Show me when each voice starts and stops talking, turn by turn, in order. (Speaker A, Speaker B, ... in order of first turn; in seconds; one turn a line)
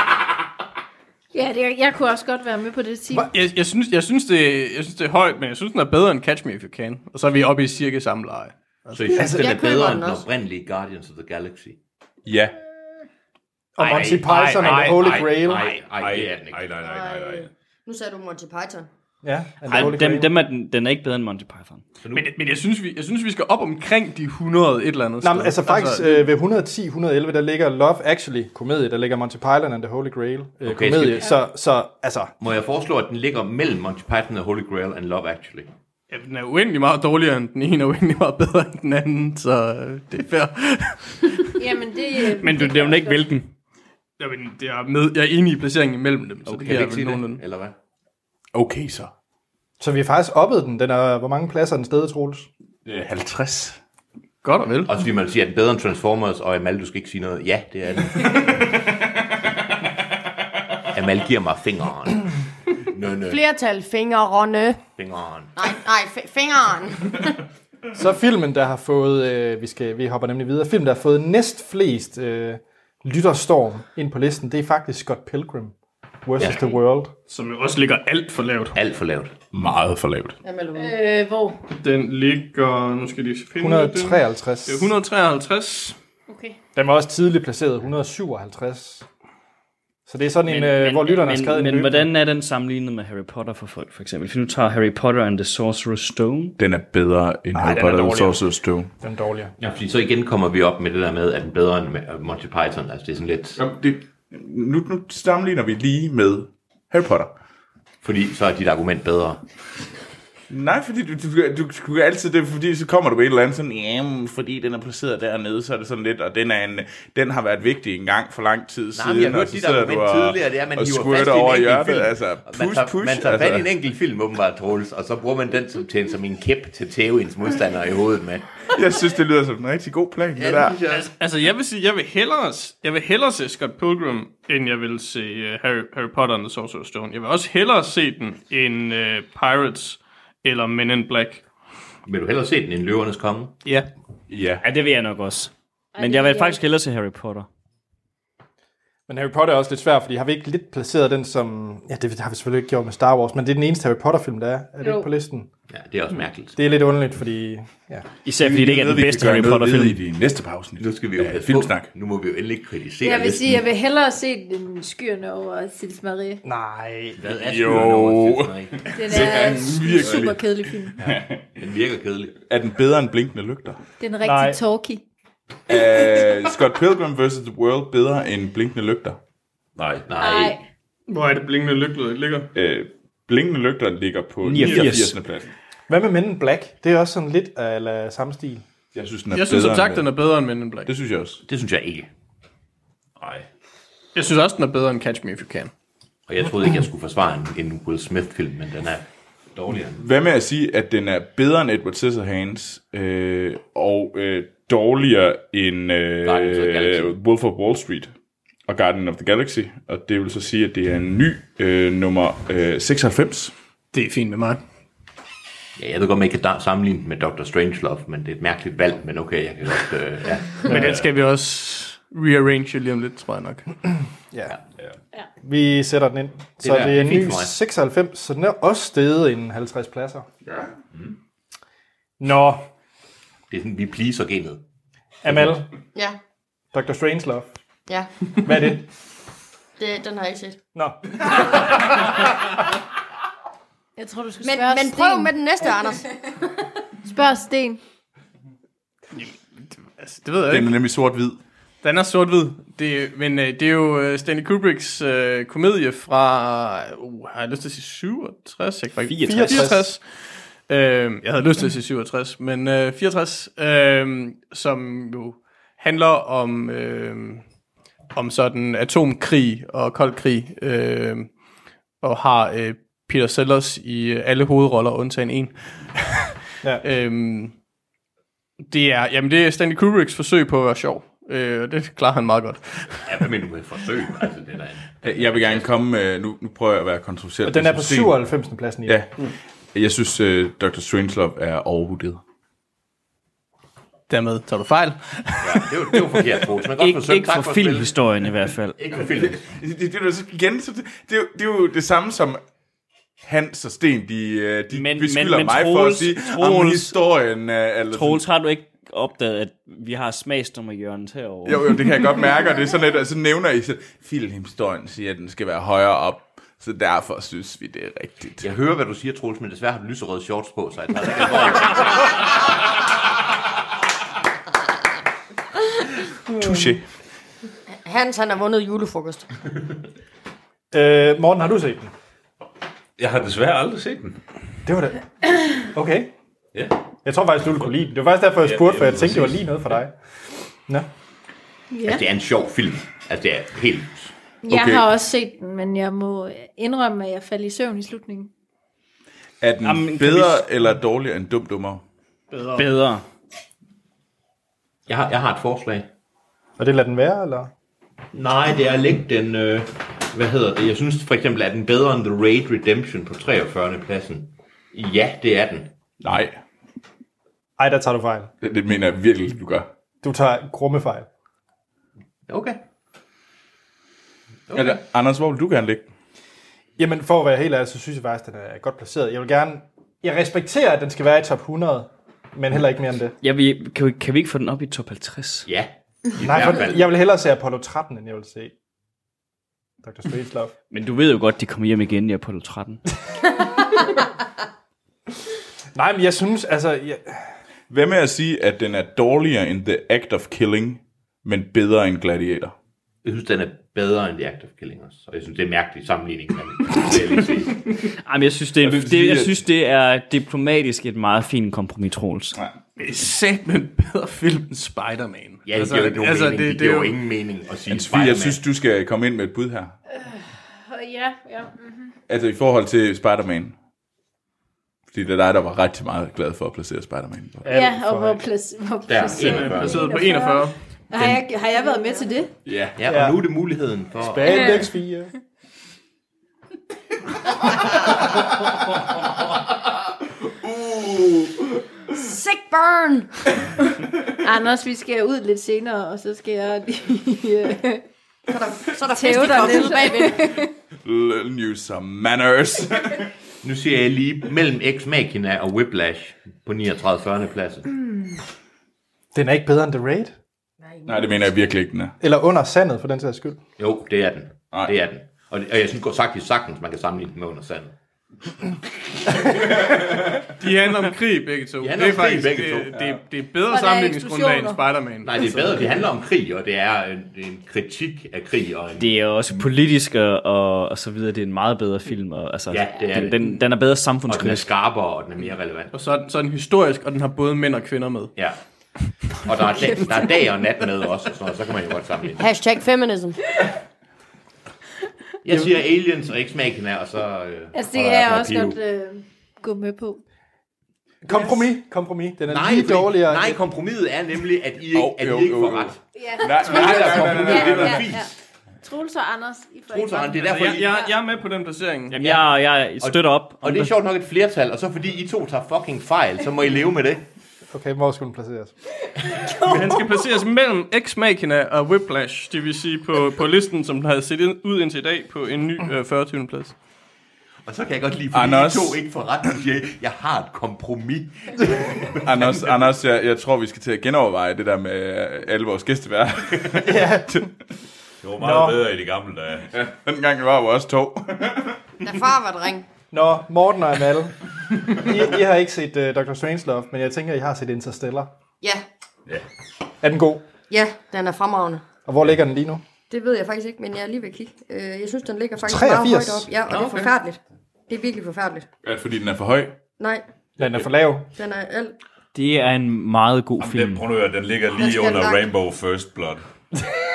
Speaker A: 1.3-3.3
Speaker B: 3.3-8.5
Speaker C: 8.9-9.5
Speaker D: 9.0-11.8
Speaker E: 9.2-10.2
Speaker F: 12.2-12.6
Speaker C: 13.8-15.7
Speaker D: 13.8-16.7
Speaker B: 14.1-15.0
Speaker G: 16.0-17.5
Speaker E: 16.8-18.9
Speaker C: 19.2-20.4
Speaker H: 19.7-21.9
Speaker D: 22.0-22.3
Speaker B: 22.1-26.3
Speaker C: 25.2-32.3
Speaker D: 30.6-31.3
Speaker D: 32.4-35.7
Speaker B: 36.1-41.6
Speaker A: 41.6-43.3
Speaker B: 42.2-43.5
Speaker B: 44.2-47.4
Speaker D: 46.5-47.7
Speaker F: 48.5-49.1
Speaker C: 49.8-52.5
Speaker F: 52.9-53.8
Speaker B: 54.4-54.9
Speaker D: 54.9-58.7
Speaker D: 60.9-62.3
Speaker D: 62.9-63.4
Speaker E: 63.3-64.8
Speaker D: 65.0-65.5
Speaker E: 65.6-67.4
Speaker C: 67.9-77.1
Speaker B: 77.3-78.8
Speaker D: 78.8-79.3
Speaker F: 79.5-80.4
Speaker E: 80.4-81.0
Speaker A: 80.8-81.6
Speaker B: 81.7-86.0
Speaker C: 83.6-84.9
Speaker A: 86.3-86.6
Speaker C: 86.8-89.1
Speaker C: 90.1-92.1
Speaker H: 90.4-96.6
Speaker F: 96.6-98.9
Speaker C: 97.5-98.4
Speaker C: 99.0-99.5
Speaker D: 99.6-103.6
Speaker F: 103.6-107.3
Speaker D: 108.0-109.4
Speaker F: 110.5-123.7
Speaker D: 119.0-128.7
Speaker F: 128.7-130.8
Speaker D: 130.4-131.1
Speaker B: 130.9-141.4
Speaker D: 142.1-143.5
Speaker F: 144.3-144.7
Speaker H: 144.6-147.5
Speaker A: 145.9-146.6
Speaker C: 149.1-155.5
Speaker A: 154.8-155.1
Speaker D: 155.7-156.6
Speaker C: 156.6-158.1
Speaker H: 158.2-160.0
Speaker F: 158.4-161.9
Speaker D: 160.8-163.7
Speaker A: 163.0-166.4
Speaker C: 166.4-167.2
Speaker D: 167.2-168.8
Speaker F: 167.3-171.4
Speaker A: 168.9-171.1
Speaker D: 171.6-172.4
Speaker F: 172.4-173.8
Speaker A: 174.0-175.0
Speaker C: 174.2-174.6
Speaker F: 175.7-179.2
Speaker G: 179.8-180.1
Speaker D: 180.1-180.6
Speaker A: 180.2-180.6
Speaker B: 181.1-182.5
Speaker F: 182.5-185.5
Speaker H: 184.4-185.2
Speaker C: 185.9-188.6
Speaker F: 188.9-190.1
Speaker B: 189.3-190.9
Speaker F: 190.8-191.4
Speaker D: 191.4-192.1
Speaker G: 193.2-193.5
Speaker B: 194.2-195.7
Speaker D: 196.3-199.1
Speaker G: 199.6-199.8
Speaker F: 199.8-208.1
Speaker D: 206.2-207.2
Speaker F: 208.7-213.5
Speaker B: 213.9-214.6
Speaker D: 215.8-220.8
Speaker B: 220.6-223.7
Speaker C: 224.3-224.6
Speaker C: 225.4-230.3
Speaker D: 226.6-227.6
Speaker C: 232.2-232.7
Speaker D: 233.5-234.6
Speaker C: 235.2-235.7
Speaker C: 236.7-237.5
Speaker C: 238.4-238.9
Speaker E: 239.8-240.6
Speaker C: 240.8-242.2
Speaker A: 244.0-245.3
Speaker E: 244.4-246.1
Speaker A: 247.1-247.8
Speaker B: 249.1-250.7
Speaker F: 250.5-251.4
Speaker B: 251.8-267.4
Speaker H: 259.1-259.7
Speaker C: 259.2-259.9
Speaker B: 268.1-271.3
Speaker B: 272.0-276.2
Speaker B: 276.8-277.5
Speaker B: 278.6-283.3
Speaker D: 283.1-285.7
Speaker F: 285.0-288.2
Speaker C: 287.4-289.0
Speaker F: 288.9-289.1
Speaker F: 289.7-292.2
Speaker B: 294.1-296.4
Speaker D: 295.4-298.0
Speaker H: 296.8-298.9
Speaker D: 298.8-299.5
Speaker F: 299.1-302.4
Speaker F: 303.2-308.3
Speaker H: 304.7-307.0
Speaker H: 307.9-312.0
Speaker F: 311.5-318.4
Speaker D: 318.4-322.1
Speaker F: 326.4-326.9
Speaker E: 327.9-329.2
Speaker C: 330.7-331.9
Speaker G: 333.0-334.2
Speaker C: 334.7-335.0
Speaker C: 335.6-336.1
Speaker C: 337.0-339.9
Speaker G: 338.4-339.6
Speaker A: 341.7-342.0
Speaker D: 341.9-344.1
Speaker A: 344.4-348.3
Speaker F: 344.5-344.9
Speaker F: 349.4-351.8
Speaker H: 349.6-350.4
Speaker B: 352.3-352.7
Speaker H: 352.6-353.0
Speaker D: 354.9-355.9
Speaker C: 356.6-357.5
Speaker D: 358.1-365.7
Speaker F: 366.0-366.4
Speaker C: 367.6-368.3
Speaker F: 368.4-369.7
Speaker C: 370.0-371.1
Speaker D: 372.3-372.6
Speaker D: 374.5-374.8
Speaker F: 374.5-375.9
Speaker C: 376.8-383.2
Speaker H: 383.2-385.5
Speaker D: 385.5-386.9
Speaker C: 386.2-388.5
Speaker C: 389.8-390.5
Speaker H: 390.7-392.8
Speaker C: 395.8-397.2
Speaker F: 397.7-402.5
Speaker D: 403.0-407.6
Speaker H: 408.0-412.4
Speaker F: 408.6-409.4
Speaker B: 412.8-417.0
Speaker D: 415.5-418.4
Speaker F: 417.7-419.8
Speaker A: 419.9-421.9
Speaker F: 422.1-423.6
Speaker F: 424.9-427.6
Speaker C: 427.4-428.2
Speaker A: 427.5-432.3
Speaker D: 428.9-429.9
Speaker B: 429.1-431.2
Speaker F: 432.5-432.8
Speaker D: 432.8-434.6
Speaker C: 432.9-433.3
Speaker C: 434.0-435.1
Speaker A: 434.2-434.7
Speaker F: 440.3-441.6
Speaker E: 441.9-443.1
Speaker A: 444.2-447.8
Speaker E: 448.3-450.4
Speaker A: 448.9-450.5
Speaker F: 450.9-453.1
Speaker D: 453.4-457.7
Speaker C: 459.1-460.1
Speaker F: 460.9-462.0
Speaker C: 462.0-463.4
Speaker D: 463.6-467.7
Speaker F: 469.2-470.2
Speaker B: 470.4-475.9
Speaker D: 471.6-472.8
Speaker A: 473.5-474.6
Speaker D: 475.0-479.5
Speaker H: 478.8-484.5
Speaker D: 482.5-483.4
Speaker D: 484.1-485.7
Speaker B: 485.7-488.1
Speaker D: 489.1-492.4
Speaker E: 492.2-493.2
Speaker D: 495.2-498.6
Speaker A: 497.5-500.0
Speaker C: 501.1-503.4
Speaker D: 502.3-508.1
Speaker F: 504.7-508.0
Speaker A: 505.9-508.1
Speaker A: 508.6-510.9
Speaker D: 509.7-510.8
Speaker B: 510.2-512.0
Speaker H: 511.9-513.7
Speaker D: 512.0-512.2
Speaker D: 512.8-517.0
Speaker C: 517.5-518.5
Speaker A: 519.1-519.6
Speaker B: 519.3-526.5
Speaker D: 527.5-532.4
Speaker F: 528.1-528.8
Speaker F: 532.0-537.2
Speaker C: 536.6-537.3
Speaker G: 538.0-539.5
Speaker C: 538.2-538.6
Speaker F: 539.5-541.6
Speaker E: 541.8-542.7
Speaker C: 542.9-544.2
Speaker C: 544.7-548.1
Speaker C: 549.8-550.2
Speaker E: 550.5-551.6
Speaker C: 551.9-552.6
Speaker E: 552.9-558.5
Speaker C: 555.5-556.3
Speaker F: 558.6-559.6
Speaker E: 559.8-560.0
Speaker C: 560.4-561.1
Speaker E: 561.1-561.8
Speaker H: 562.1-563.9
Speaker G: 563.4-566.2
Speaker E: 564.5-565.3